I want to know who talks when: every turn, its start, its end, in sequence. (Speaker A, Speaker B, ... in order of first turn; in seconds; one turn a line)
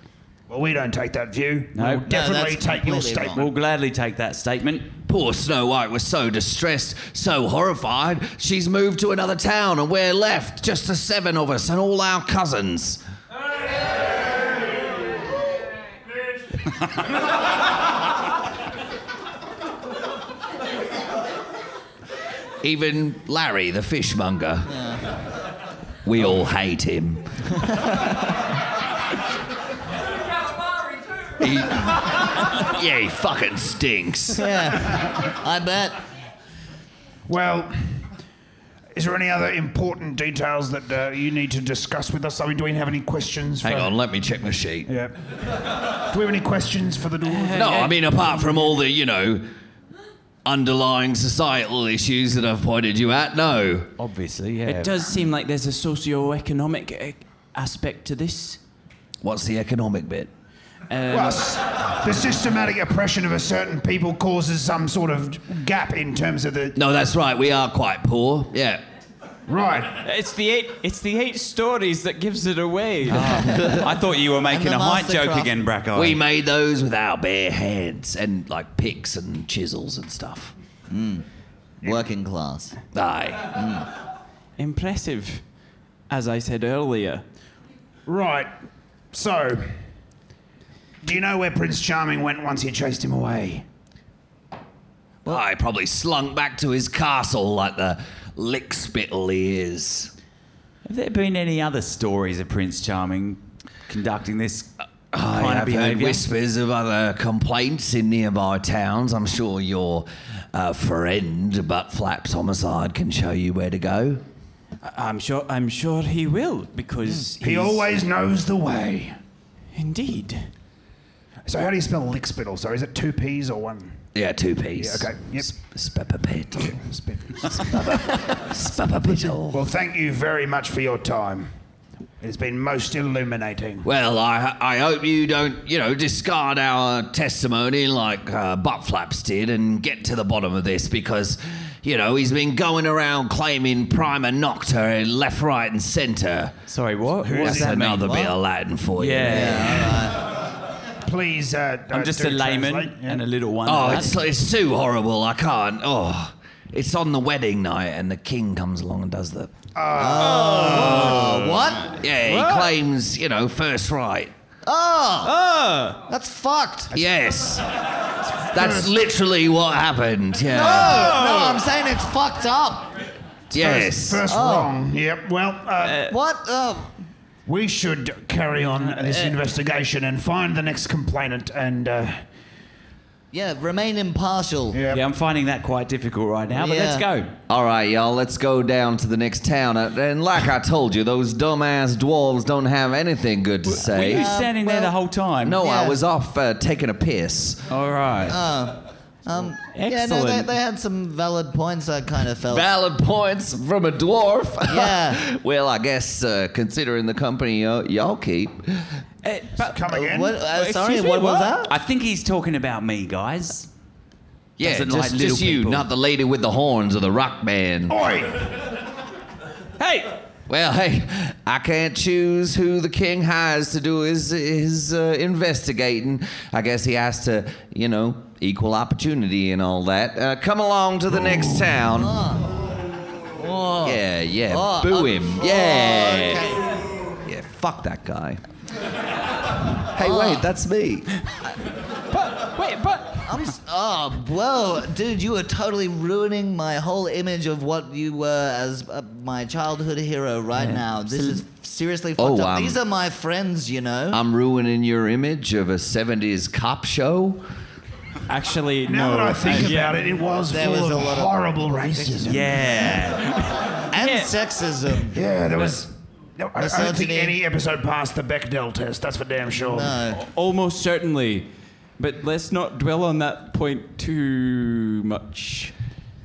Speaker A: 0.5-3.5
Speaker B: 1.7-2.1
Speaker C: 2.1-3.5
Speaker B: 3.3-4.9
Speaker D: 5.1-13.0
Speaker D: 22.6-24.7
Speaker C: 24.7-25.0
Speaker D: 26.0-27.3
Speaker D: 31.4-34.4
Speaker C: 34.3-36.0
Speaker A: 37.3-38.0
Speaker A: 38.9-43.9
Speaker D: 43.6-44.9
Speaker A: 44.9-45.1
Speaker A: 46.0-47.9
Speaker E: 47.2-48.2
Speaker D: 47.5-49.5
Speaker D: 50.4-53.9
Speaker B: 54.0-55.0
Speaker E: 54.6-58.6
Speaker D: 59.2-60.3
Speaker E: 60.9-61.6
Speaker A: 61.1-66.8
Speaker D: 66.7-68.8
Speaker A: 69.5-69.9
Speaker E: 69.9-73.5
Speaker B: 73.1-76.2
Speaker C: 73.1-73.9
Speaker C: 74.4-75.6
Speaker D: 75.9-80.5
Speaker C: 80.9-81.2
Speaker C: 81.8-82.8
Speaker D: 82.9-83.5
Speaker C: 83.5-83.9
Speaker E: 84.6-85.4
Speaker E: 86.1-87.2
Speaker A: 88.0-88.5
Speaker A: 89.1-89.8
Speaker A: 91.0-93.6
Speaker D: 95.2-100.1
Speaker B: 100.8-106.3
Speaker D: 105.1-114.2
Speaker E: 114.8-117.8
Speaker A: 117.4-119.2
Speaker E: 119.7-120.5
Speaker A: 121.5-124.0
Speaker D: 124.1-126.8
Speaker A: 124.8-125.5
Speaker A: 126.7-128.2
Speaker D: 127.7-129.6
Speaker A: 129.4-131.5
Speaker A: 132.2-133.9
Speaker D: 133.8-146.6
Speaker B: 146.7-148.3
Speaker A: 147.2-147.9
Speaker D: 147.4-149.9
Speaker C: 148.0-148.3
Speaker B: 148.9-150.1
Speaker C: 149.2-150.2
Speaker A: 151.0-153.2
Speaker B: 151.9-154.2
Speaker D: 153.6-159.5
Speaker A: 159.7-161.1
Speaker C: 159.9-162.0
Speaker E: 160.2-162.7
Speaker D: 161.9-164.3
Speaker C: 164.6-165.4
Speaker E: 165.2-166.0
Speaker C: 166.1-166.9
Speaker D: 166.9-167.7
Speaker D: 168.4-171.1
Speaker A: 168.4-169.0
Speaker C: 170.5-172.9
Speaker E: 170.7-171.6
Speaker D: 173.5-174.2
Speaker A: 173.5-176.1
Speaker C: 174.3-174.7
Speaker E: 175.8-176.1
Speaker C: 176.0-176.9
Speaker A: 177.4-182.2
Speaker E: 178.9-179.3
Speaker C: 183.3-184.8
Speaker A: 184.7-185.1
Speaker B: 184.9-187.3
Speaker C: 186.5-187.1
Speaker D: 187.5-194.3
Speaker B: 193.7-195.6
Speaker C: 193.9-194.9
Speaker D: 195.4-197.7
Speaker C: 195.5-196.0
Speaker B: 197.7-198.4
Speaker C: 198.3-202.7
Speaker E: 199.7-200.5
Speaker D: 202.5-208.9
Speaker C: 204.7-205.2
Speaker E: 209.2-209.8
Speaker A: 209.6-210.4
Speaker C: 209.9-211.8
Speaker E: 210.4-211.6
Speaker B: 211.7-213.7
Speaker D: 214.6-218.0
Speaker B: 214.6-215.9
Speaker A: 217.9-218.5
Speaker E: 219.8-220.2
Speaker D: 220.5-232.2
Speaker C: 231.8-232.5
Speaker C: 233.4-236.6
Speaker D: 233.8-236.6
Speaker D: 237.2-238.4
Speaker D: 239.9-241.1
Speaker C: 240.0-240.4
Speaker E: 242.1-243.4
Speaker C: 243.2-254.2
Speaker B: 250.6-251.4
Speaker D: 252.2-252.8
Speaker D: 254.1-257.4
Speaker E: 258.3-260.0
Speaker A: 258.8-262.6
Speaker C: 260.5-262.2
Speaker B: 262.2-263.3
Speaker E: 263.1-264.3
Speaker C: 263.9-265.2
Speaker A: 265.1-270.0
Speaker C: 266.6-267.4
Speaker C: 269.7-270.2
Speaker E: 270.1-275.7